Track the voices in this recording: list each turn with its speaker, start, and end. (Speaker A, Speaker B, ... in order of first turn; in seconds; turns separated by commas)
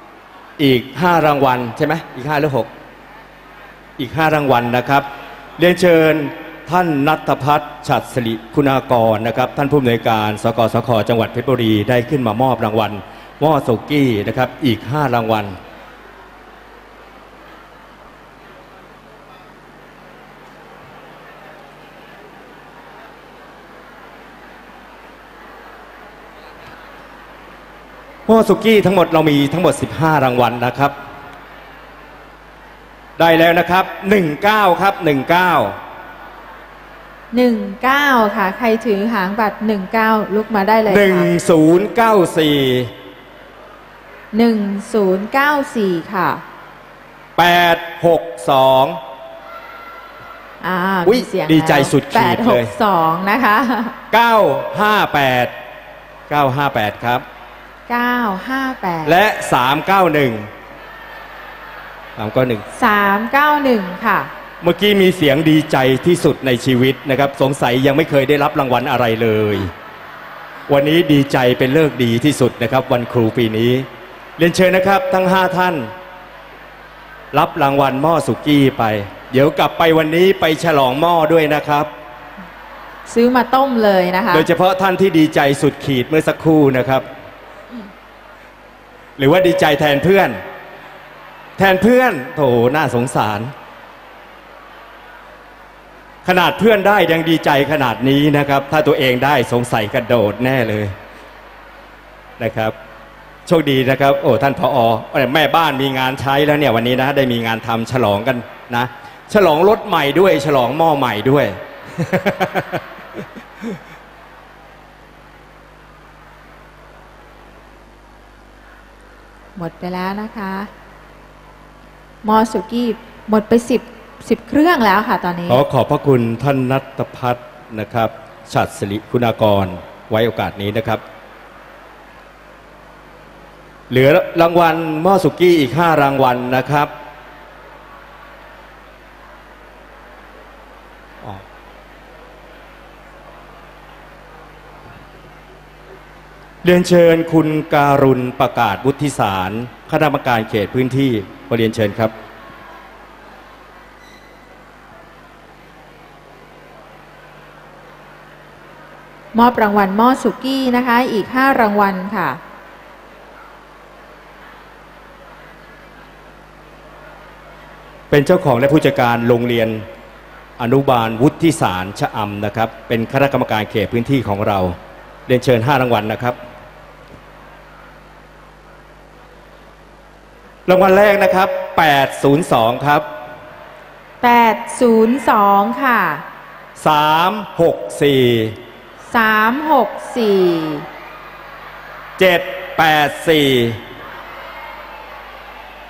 Speaker A: 0.6-2.7, Speaker A: 4.0-5.0, Speaker A: 5.6-15.6, Speaker A: 28.3-30.9, Speaker A: 33.2-35.7, Speaker B: 37.3-41.3, Speaker A: 40.9-42.9, Speaker B: 44.3-46.4, Speaker A: 47.4-49.0, Speaker B: 50.6-53.9, Speaker A: 51.0-52.7, Speaker A: 54.1-55.5, Speaker A: 56.3-57.2, Speaker B: 57.9-59.1, Speaker A: 59.0-60.5, Speaker A: 62.2-62.6, Speaker B: 62.7-64.3, Speaker A: 64.6-69.7, Speaker A: 70.7-73.8, Speaker A: 74.4-75.9, Speaker A: 77.3-81.9, Speaker B: 83.1-84.5, Speaker A: 84.3-87.0, Speaker A: 89.2-90.4, Speaker A: 91.6-93.5, Speaker A: 96.2-100.9, Speaker A: 102.4-102.7, Speaker A: 103.5-112.8, Speaker B: 119.5-120.7, Speaker B: 122.2-125.6, Speaker A: 125.5-131.0, Speaker A: 133.9-136.9, Speaker A: 146.6-152.1, Speaker B: 159.3-162.4, Speaker A: 168.1-169.8, Speaker A: 170.6-174.7, Speaker A: 175.3-176.3, Speaker A: 180.7-183.0, Speaker B: 184.2-186.2, Speaker A: 186.8-188.6, Speaker B: 189.1-190.8, Speaker A: 192.2-193.8